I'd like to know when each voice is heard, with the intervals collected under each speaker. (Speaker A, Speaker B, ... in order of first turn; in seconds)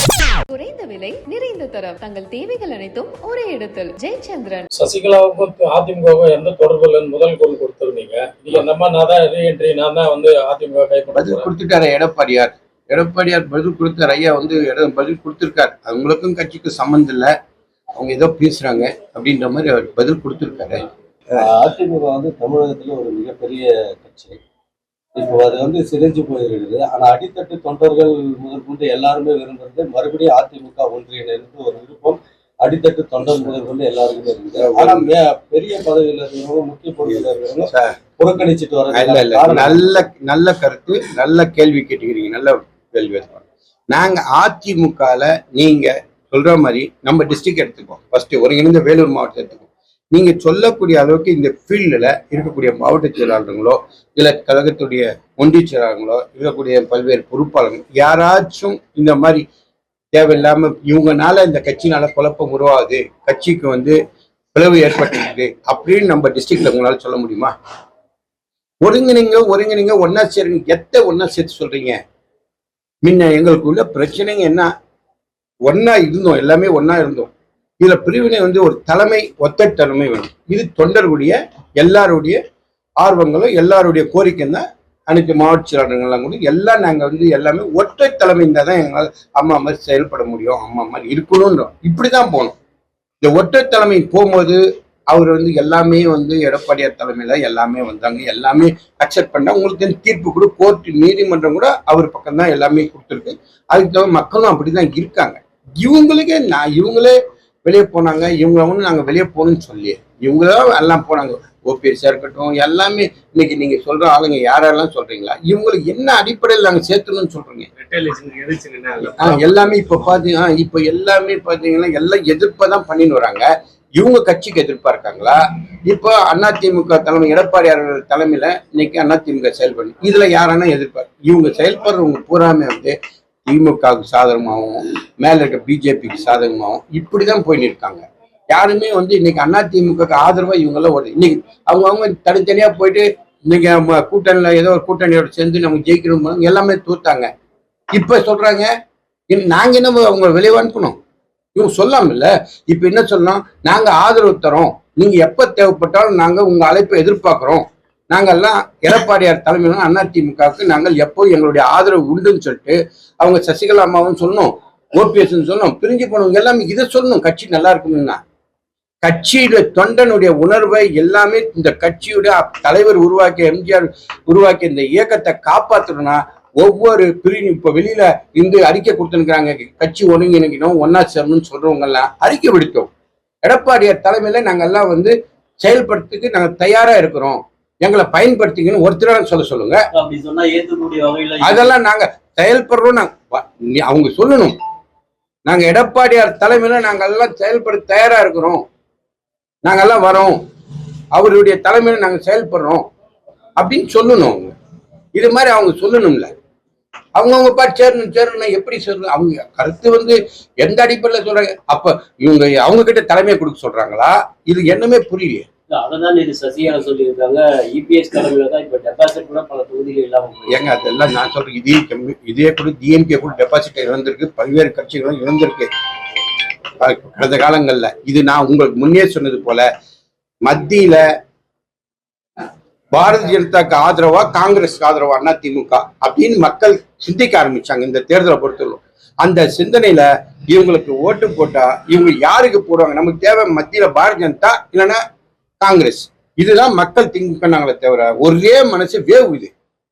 Speaker A: 0.5-4.7
Speaker B: 4.8-11.5, 117.8-119.5
Speaker C: 11.1-17.3, 17.9-20.9, 34.6-35.1, 37.1-38.0, 38.9-59.4, 60.1-64.0, 64.5-67.5, 68.8-72.0, 73.0-74.7, 75.7-82.4, 83.0-92.5, 93.2-117.7, 119.0-147.3, 147.9-148.7, 149.3-150.9, 151.5-168.2, 169.0-182.9, 183.4-189.8, 191.4-194.5, 195.4-198.6, 199.6-200.4, 201.1-202.8, 203.6-204.5, 205.1-206.3, 207.2-215.5, 220.5-225.7, 226.8-229.7, 230.4-231.0, 232.9-245.0, 245.6-249.5
Speaker D: 21.4-24.4, 25.1-39.8
Speaker E: 189.9-191.7, 215.7-220.7